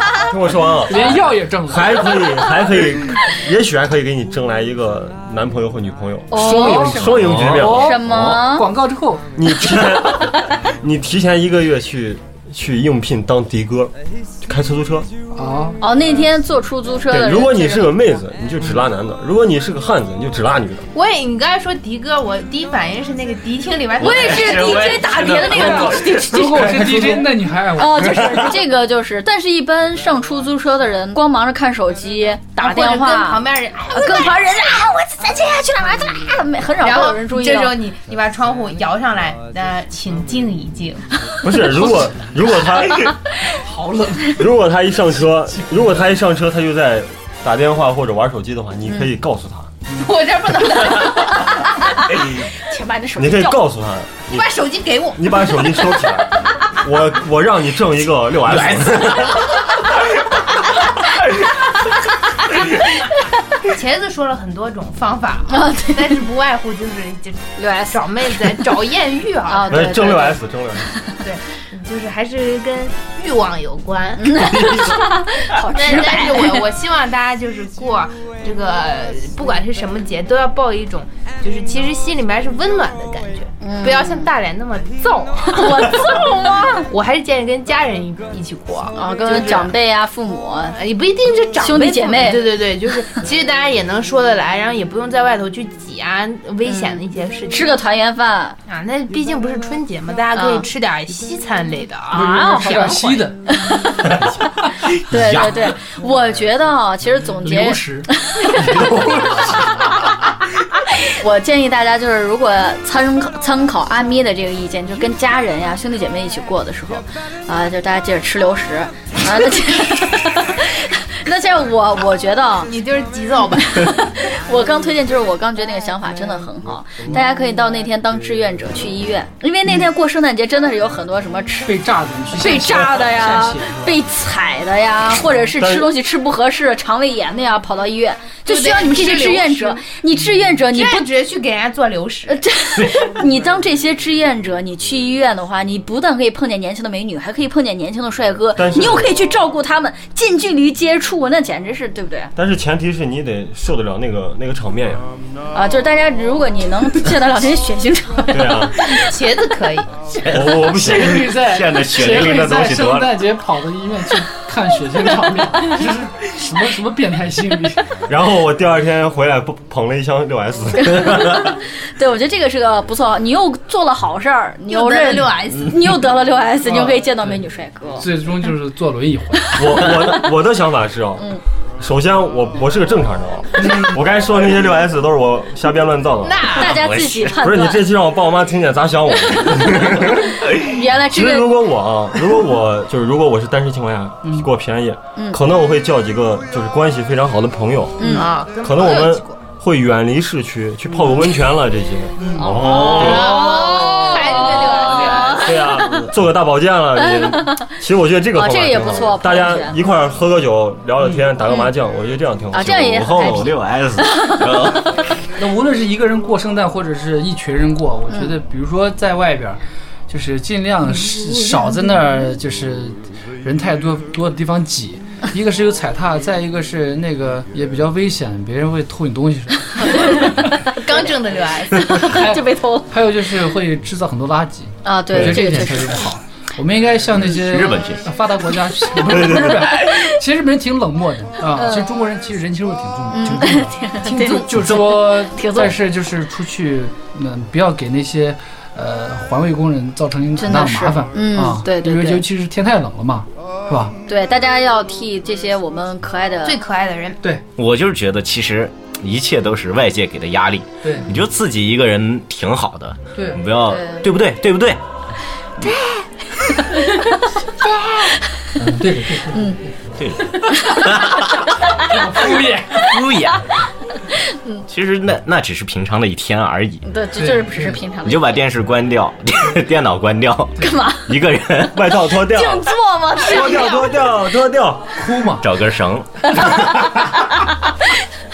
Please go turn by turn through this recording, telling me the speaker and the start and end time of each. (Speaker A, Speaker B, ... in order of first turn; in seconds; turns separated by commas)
Speaker A: 0.3-8.0, Speaker B: 0.9-2.1, Speaker C: 6.3-8.7, Speaker B: 6.4-9.4, Speaker D: 7.1-8.4, Speaker A: 9.3-15.1, Speaker B: 15.3-15.8, Speaker C: 15.8-18.0, Speaker A: 17.1-20.9, Speaker E: 20.9-24.8, Speaker C: 24.0-27.2, Speaker D: 24.0-27.2, Speaker B: 25.4-28.5, Speaker C: 27.7-37.9, Speaker E: 32.6-34.4, Speaker E: 36.8-41.1, Speaker C: 41.3-42.1, Speaker A: 41.4-43.2, Speaker C: 42.9-43.6, Speaker B: 43.5-44.4, Speaker A: 44.3-49.7, Speaker B: 45.6-46.0, Speaker E: 49.9-52.1, Speaker C: 52.3-53.7, Speaker A: 53.2-54.5, Speaker E: 54.3-55.6, Speaker A: 55.2-59.5, Speaker D: 58.5-59.5, Speaker E: 63.6-70.1, Speaker C: 65.5-66.2, Speaker C: 67.6-68.0, Speaker C: 69.5-70.4, Speaker A: 69.7-70.9, Speaker E: 71.2-74.5, Speaker C: 74.2-76.7, Speaker D: 74.5-75.0, Speaker E: 75.5-86.1, Speaker C: 83.6-84.3, Speaker C: 85.5-86.9, Speaker E: 86.9-89.7, Speaker C: 89.0-90.8, Speaker E: 90.8-97.8, Speaker C: 91.6-92.6, Speaker C: 96.6-98.6, Speaker E: 98.7-102.4, Speaker C: 100.3-100.7, Speaker C: 102.1-109.7, Speaker B: 102.1-103.8, Speaker B: 104.5-104.7, Speaker D: 104.9-105.8, Speaker B: 107.4-108.1, Speaker D: 108.6-109.6, Speaker C: 111.0-122.7, Speaker E: 122.7-124.2, Speaker C: 123.8-141.1, Speaker B: 131.6-134.0, Speaker A: 135.6-135.9, Speaker E: 138.5-139.8, Speaker E: 140.7-142.4, Speaker C: 142.3-152.3, Speaker D: 142.8-143.2, Speaker A: 148.6-149.1, Speaker A: 152.4-155.1, Speaker C: 155.5-159.0, Speaker A: 158.3-158.8, Speaker E: 158.9-159.9, Speaker D: 160.1-163.2, Speaker A: 160.3-161.3, Speaker B: 160.7-167.9, Speaker A: 168.1-171.6, Speaker C: 170.8-178.1, Speaker E: 174.7-176.0, Speaker B: 176.6-177.4, Speaker B: 178.0-179.6, Speaker C: 179.5-180.2, Speaker A: 179.6-186.7, Speaker E: 186.2-186.8, Speaker C: 186.6-187.9, Speaker D: 186.6-187.4, Speaker A: 187.4-203.4, Speaker C: 189.3-191.6, Speaker C: 195.2-195.4, Speaker C: 198.0-198.3, Speaker E: 198.0-199.4, Speaker B: 202.2-202.5, Speaker E: 202.3-205.6, Speaker C: 202.5-205.9, Speaker D: 202.6-203.2, Speaker A: 205.4-213.3, Speaker C: 207.0-207.7, Speaker C: 208.3-209.8, Speaker C: 211.4-211.7, Speaker C: 212.5-214.4, Speaker D: 212.6-215.1, Speaker B: 215.3-230.6, Speaker C: 229.8-231.1, Speaker E: 230.6-232.3, Speaker C: 231.7-233.0, Speaker B: 232.0-253.9, Speaker C: 234.8-236.1, Speaker D: 237.2-238.1, Speaker A: 239.0-240.0, Speaker C: 239.8-240.2, Speaker C: 241.5-242.0, Speaker C: 243.1-245.8, Speaker C: 250.4-252.2, Speaker C: 254.1-256.6, Speaker E: 256.4-257.2, Speaker D: 257.6-264.8, Speaker B: 260.8-261.1, Speaker B: 263.1-263.4, Speaker C: 263.7-264.1, Speaker C: 265.6-265.9, Speaker C: 266.7-267.8, Speaker B: 268.6-269.7, Speaker C: 269.3-269.6, Speaker D: 270.0-271.4, Speaker C: 270.5-270.8, Speaker B: 271.7-273.0, Speaker D: 272.8-273.4, Speaker C: 274.1-274.6, Speaker D: 274.7-276.9, Speaker C: 276.9-278.4, Speaker B: 277.2-277.8, Speaker D: 278.1-281.9, Speaker C: 280.6-281.1, Speaker A: 281.7-285.0, Speaker C: 282.0-283.9, Speaker B: 285.0-285.5, Speaker D: 285.4-286.7, Speaker C: 286.4-287.5